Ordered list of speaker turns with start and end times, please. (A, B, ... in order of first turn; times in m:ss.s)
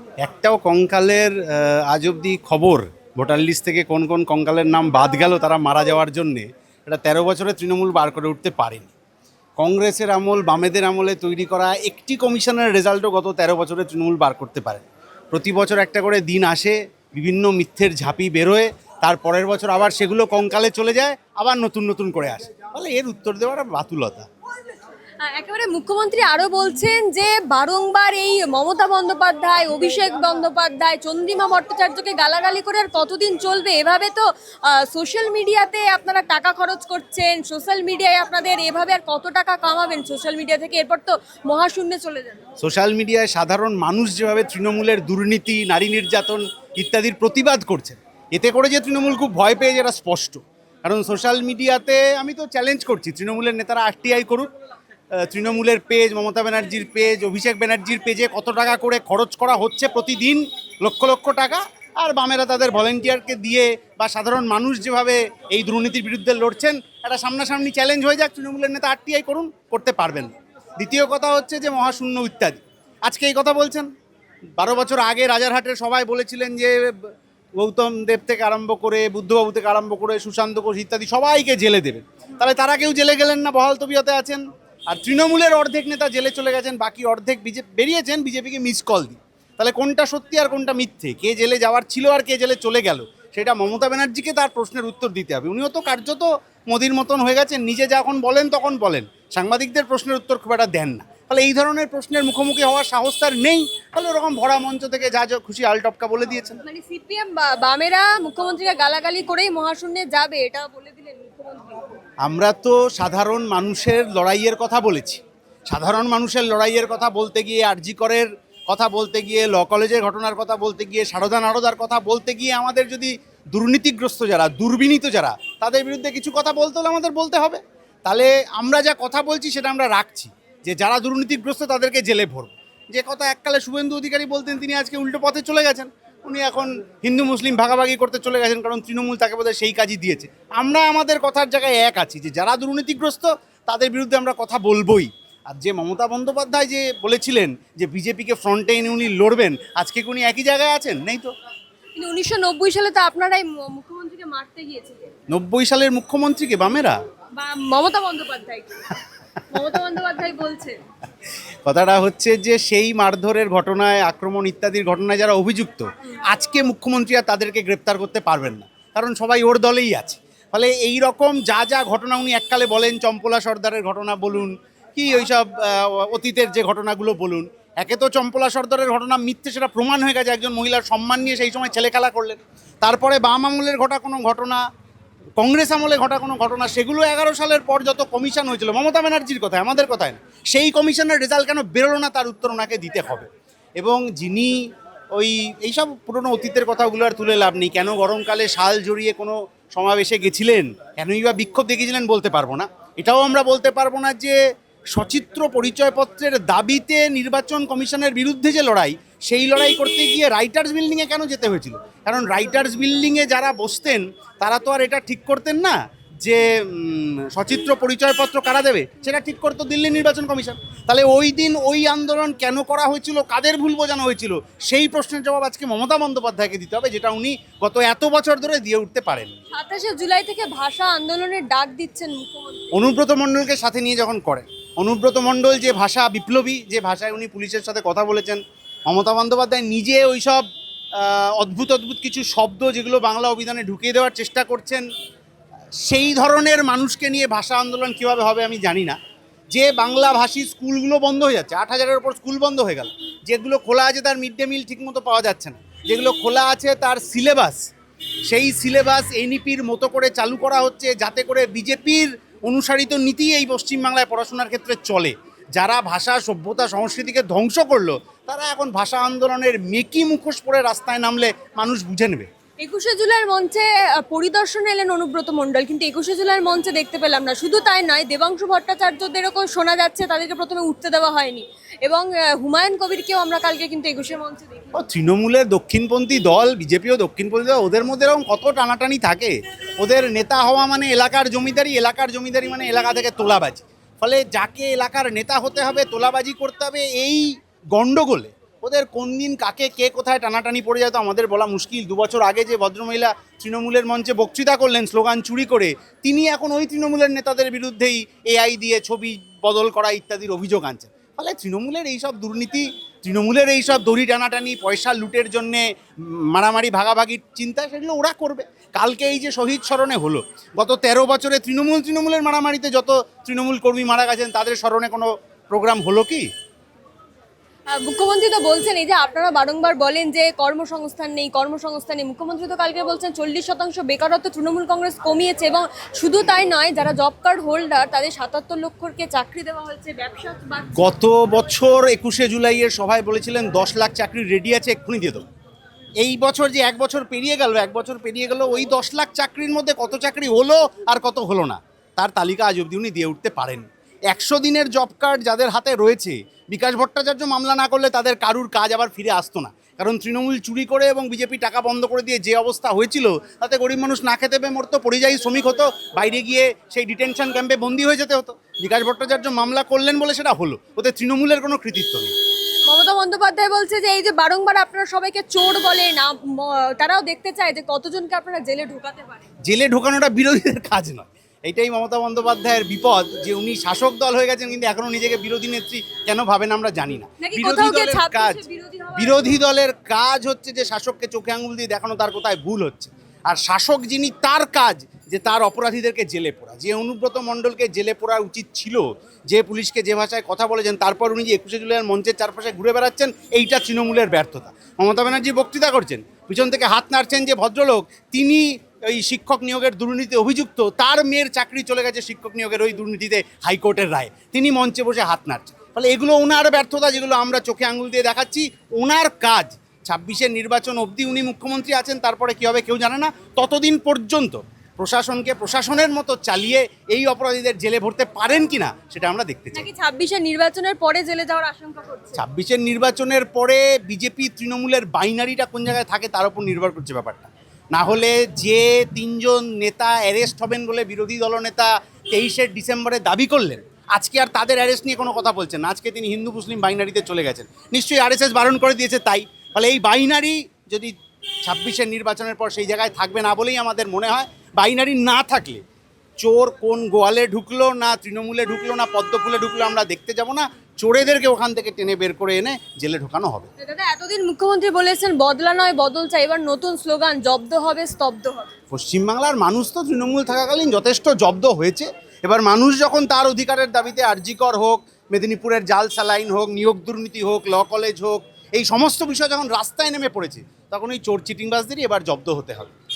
0:00.2-0:08.9 A
0:09.6-0:24.3 A
0:25.2-0:42.4 B
0:42.6-0:54.5 A
0:55.2-1:13.9 A
1:14.6-1:46.6 A
1:46.6-1:51.8 B
1:52.2-2:31.3 A
2:32.0-2:35.1 B
2:35.3-2:37.0 A
2:37.4-2:39.0 B
2:39.5-2:40.8 B
2:41.7-3:04.6 A
3:05.4-3:14.6 A
3:15.1-3:24.4 A
3:25.0-3:49.3 A
3:49.6-3:52.6 B
3:52.7-4:00.4 A
4:01.0-4:04.9 A
4:05.8-4:09.0 A
4:09.5-4:17.6 A
4:18.3-4:32.3 A
4:32.6-4:44.8 B
4:44.7-5:26.3 A
5:27.7-5:40.8 B
5:40.8-5:45.3 A
5:46.0-6:12.1 A
6:12.7-6:19.3 B
6:19.4-6:28.4 A
6:27.2-6:29.4 B
6:29.0-7:09.7 A
7:09.5-7:12.2 B
7:12.2-7:30.9 A
7:31.4-7:35.6 A
7:36.2-7:43.5 A
7:43.6-7:48.5 B
7:48.7-8:02.7 A